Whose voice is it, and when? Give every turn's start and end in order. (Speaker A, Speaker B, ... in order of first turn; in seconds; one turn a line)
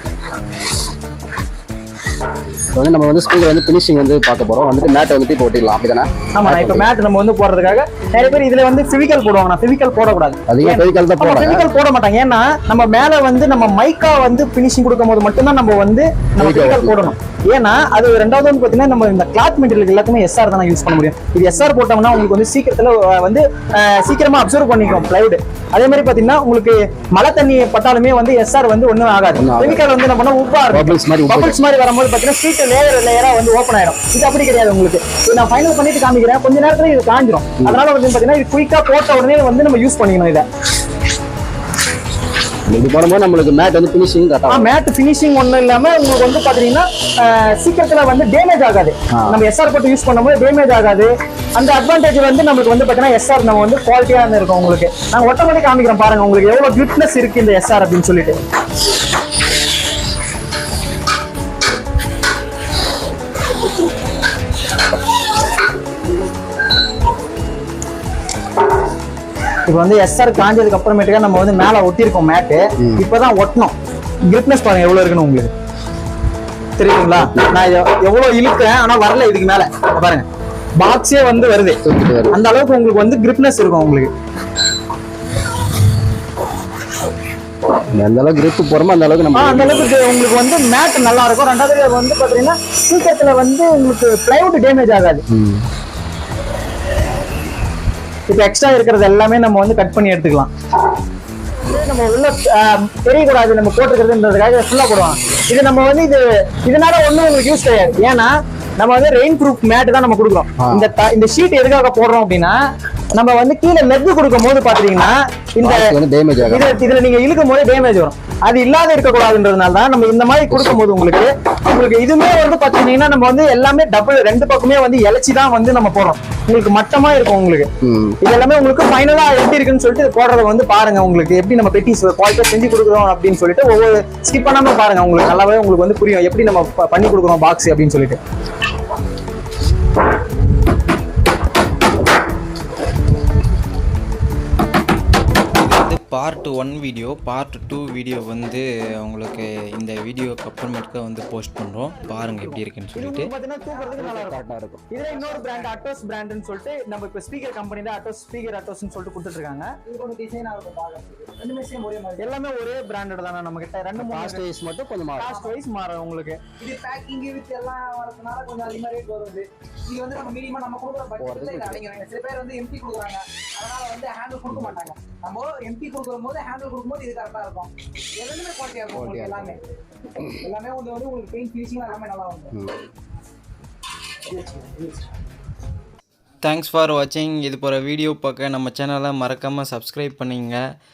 Speaker A: 2.7-6.9
Speaker B: 6.3-40.4
Speaker A: 10.5-11.6
Speaker A: 16.4-16.9
Speaker A: 29.4-29.8
Speaker A: 30.7-31.6
Speaker A: 42.7-44.7
Speaker B: 44.5-58.4
Speaker B: 69.7-73.7
Speaker B: 74.3-75.5
Speaker B: 76.8-80.2
Speaker B: 80.8-84.1
Speaker A: 81.8-82.3
Speaker A: 87.9-89.9
Speaker B: 89.3-95.2
Speaker A: 95.3-95.6
Speaker B: 98.3-100.5
Speaker B: 101.7-112.6
Speaker A: 110.6-110.9
Speaker B: 113.1-127.7
Speaker A: 115.6-116.7
Speaker A: 120.5-120.8
Speaker A: 127.8-128.2
Speaker B: 128.2-138.2
Speaker C: 145.6-153.3
Speaker B: 152.1-159.7
Speaker D: 153.7-154.0
Speaker A: 154.0-154.8
Speaker D: 155.0-155.8
Speaker D: 159.8-162.3
Speaker B: 162.2-164.4
Speaker A: 164.0-165.3
Speaker B: 165.1-166.4
Speaker D: 166.6-179.6
Speaker A: 171.2-171.8
Speaker A: 178.9-179.5
Speaker D: 180.2-182.5
Speaker D: 184.3-185.0
Speaker C: 186.4-190.6